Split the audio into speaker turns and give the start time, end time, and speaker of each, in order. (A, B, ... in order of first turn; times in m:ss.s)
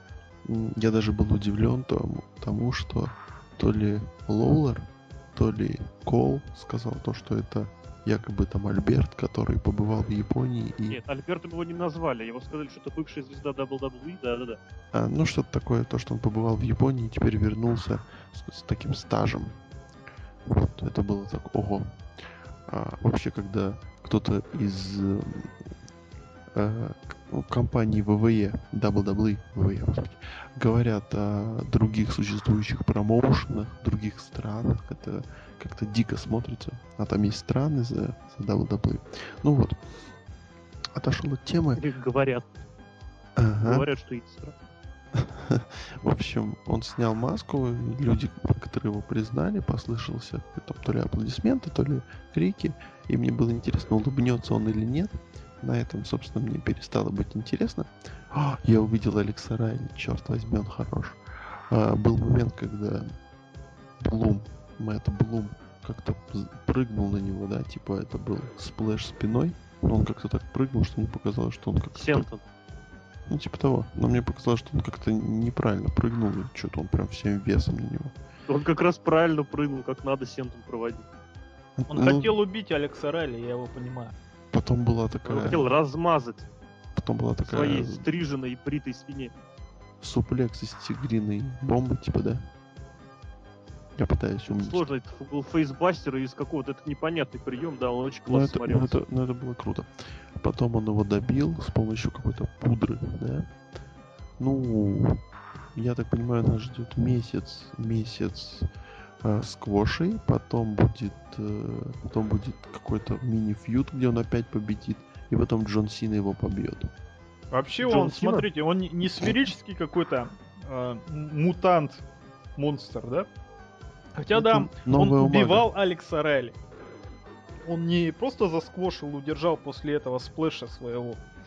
0:00.4-0:11.0 A
0:10.9-0:14.6 B
0:14.9-0:19.6 A
0:20.4-0:22.0 A
0:22.6-0:25.5 A
0:26.5-0:39.8 A
0:40.9-0:41.8 A
0:41.8-0:42.5 B
0:43.4-0:43.9 A
0:43.6-0:44.5 B
0:45.1-1:01.2 A
1:01.7-1:03.1 A
1:04.0-1:12.3 A
1:11.9-1:12.4 B
1:13.3-1:18.1 A
1:18.5-1:21.0 B
1:21.8-1:22.4 A
1:21.9-1:24.2 C
1:24.5-1:25.6 A
1:25.2-1:26.5 B
1:26.9-1:28.1 A
1:27.4-1:29.3 B
1:30.0-1:32.4 A
1:34.0-1:34.8 A
1:34.5-1:39.0 B
1:38.3-1:43.5 A
1:44.4-1:45.2 A
1:45.7-1:48.7 A
1:49.2-1:56.9 A
1:57.5-2:02.0 C
1:57.8-1:58.4 B
2:02.6-2:03.3 C
2:04.2-2:06.6 C
2:04.3-2:05.7 A
2:07.6-2:11.2 C